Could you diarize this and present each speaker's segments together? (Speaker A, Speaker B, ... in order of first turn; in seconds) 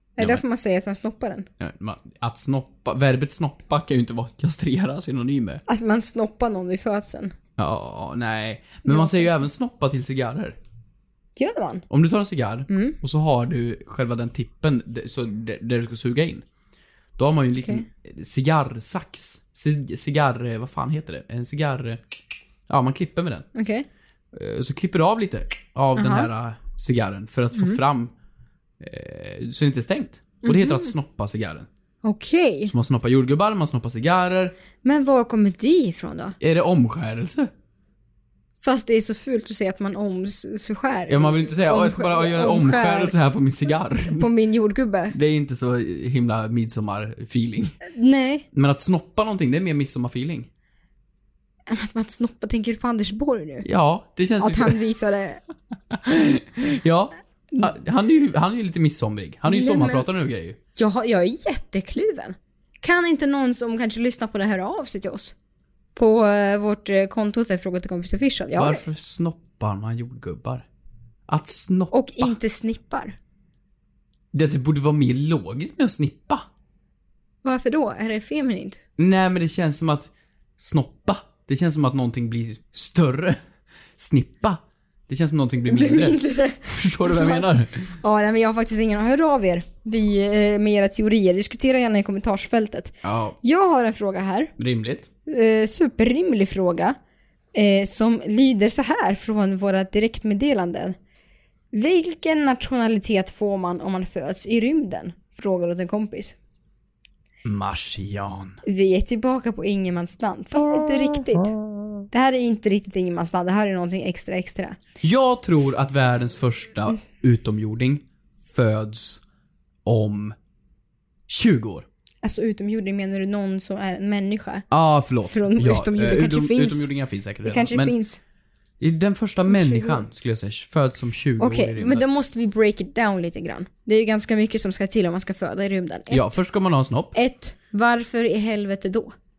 Speaker A: 0.2-1.5, 5.7-7.3, 8.8-9.4, 11.4-11.9, 12.7-13.0, 23.6-23.9, 26.0-26.3, 30.4-30.9, 32.0-32.7, 34.8-36.4, 38.6-43.1, 44.1-45.2, 47.9-48.5, 51.7-53.7, 54.4-55.4, 59.5-60.0, 60.8-65.3, 66.0-68.8, 71.9-73.2, 77.4-78.8, 85.7-87.5, 88.0-94.5, 95.3-97.0, 97.5-101.0, 101.7-106.4, 108.7-111.5, 112.1-114.8, 122.2-124.7, 125.2-126.9, 127.5-128.2, 129.5-130.0, 131.4-136.4, 137.1-139.1
Speaker B: 1.6-5.6, 7.6-10.6, 11.9-16.4, 17.2-22.0, 22.7-23.5, 24.3-28.1, 28.8-31.7, 32.7-34.5, 36.4-37.5, 41.1-44.3, 45.1-47.8, 48.5-50.5, 53.6-54.8, 55.9-60.6, 68.5-70.7, 71.3-72.3, 74.3-76.5, 79.0-83.4, 84.0-87.9, 93.0-93.4, 94.6-95.1, 107.5-108.6, 115.0-119.2, 119.8-120.3, 121.3-121.9, 124.7-128.0, 128.8-132.1, 136.1-137.2